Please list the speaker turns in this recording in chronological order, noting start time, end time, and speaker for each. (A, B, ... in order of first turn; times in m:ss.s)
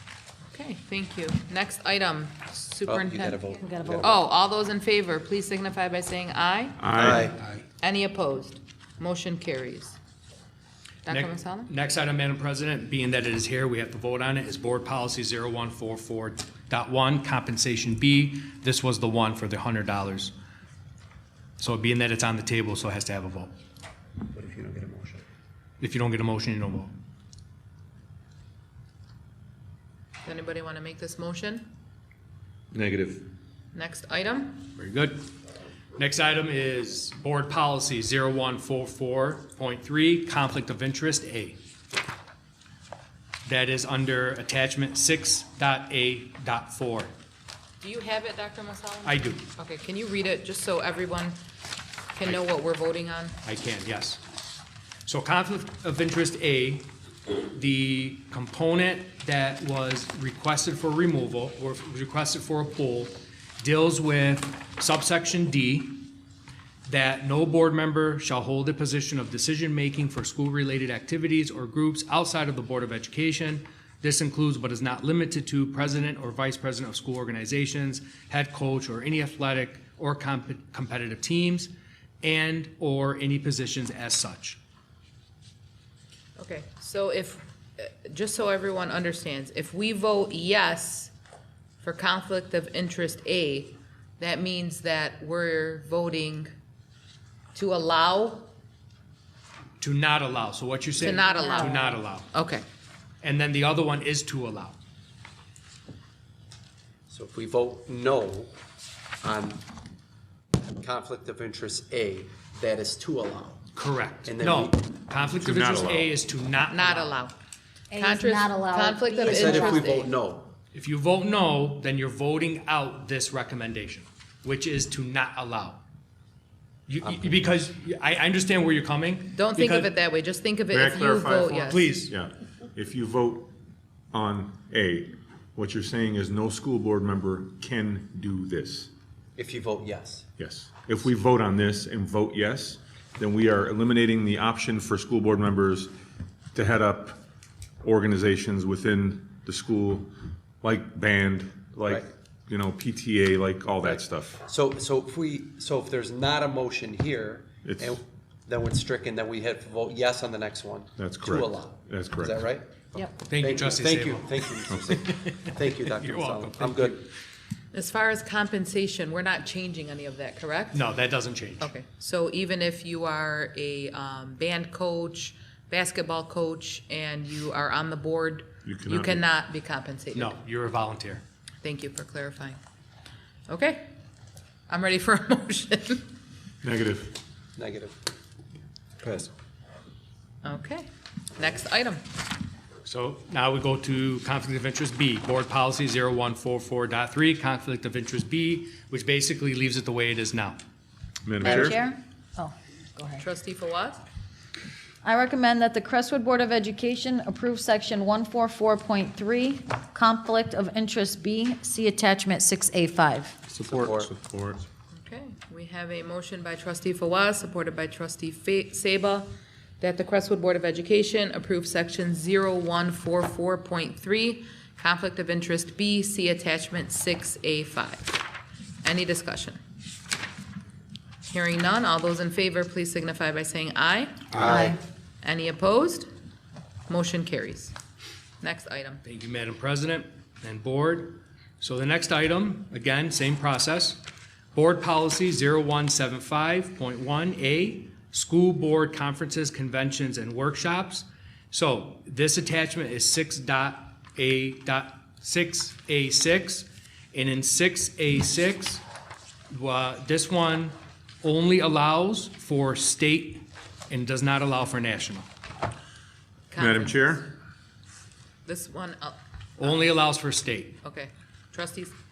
0:00.5-0:06.8 A
0:02.8-0:04.2 B
0:03.8-0:04.0 C
0:06.8-0:07.4 D
0:07.0-0:07.4 B
0:07.8-0:10.0 A
0:11.1-0:11.7 A
0:11.1-0:20.3 E
0:21.6-0:23.5 E
0:24.3-0:25.2 B
0:25.8-0:26.9 E
0:30.2-0:31.7 A
0:32.7-0:33.3 D
0:33.7-0:34.7 A
0:34.8-0:35.3 E
0:36.0-0:41.6 E
0:43.4-0:47.1 E
0:47.8-0:51.4 A
0:49.0-0:49.4 E
0:52.2-0:53.4 A
0:53.4-0:54.2 E
0:55.1-1:06.1 E
1:06.9-1:21.7 E
1:22.2-1:24.6 E
1:26.4-1:31.1 A
1:31.8-1:36.5 A
1:37.5-1:38.5 A
1:39.8-1:42.3 E
1:41.0-1:42.6 A
1:43.2-1:44.8 E
1:47.1-1:48.5 B
1:49.2-1:49.6 B
1:50.8-1:53.6 B
1:53.8-1:57.2 E
1:54.2-1:54.8 B
1:55.3-1:56.1 D
1:56.7-1:57.4 A
1:57.9-1:59.8 C
1:58.0-2:00.1 A
1:59.2-2:00.5 B
2:00.7-2:05.8 E
2:06.9-2:09.9 E
2:07.0-2:07.5 B
2:09.3-2:11.9 A
2:10.7-2:13.5 D
2:11.6-2:12.1 E
2:14.1-2:18.9 D
2:19.4-2:20.3 B
2:20.4-2:25.9 D
2:26.6-2:27.2 D
2:27.8-2:30.1 D
2:30.6-2:34.4 D
2:33.8-2:47.0 B
2:37.6-2:38.0 D
2:41.0-2:42.4 D
2:43.3-2:44.4 E
2:44.7-2:45.0 D
2:45.0-2:47.0 E
2:47.7-2:50.8 A
2:50.7-2:51.7 E
2:51.6-3:00.3 A
2:58.6-2:59.2 D
3:00.1-3:01.2 E
3:01.6-3:02.6 A
3:03.5-3:03.9 A
3:04.7-3:06.1 A
3:06.6-3:07.2 D
3:07.6-3:08.0 B
3:09.0-3:09.3 B
3:10.4-3:12.0 A
3:12.8-3:20.6 E
3:21.2-3:21.8 D
3:21.4-3:23.2 C
3:23.2-3:24.0 A
3:25.0-3:33.4 C
3:33.5-3:34.6 D
3:33.7-3:34.1 B
3:34.9-3:39.3 A
3:39.8-3:48.2 A
3:48.8-3:49.6 A
3:51.3-3:54.2 A
3:54.3-3:54.8 B
3:55.2-3:56.1 A
3:56.9-3:57.7 A
3:58.4-3:59.0 A
3:59.0-4:04.0 E
4:04.5-4:18.8 E
4:19.5-4:25.3 E
4:26.5-4:27.2 A
4:26.6-4:27.3 D
4:28.5-4:29.9 A
4:29.6-4:30.8 E
4:30.8-4:32.0 A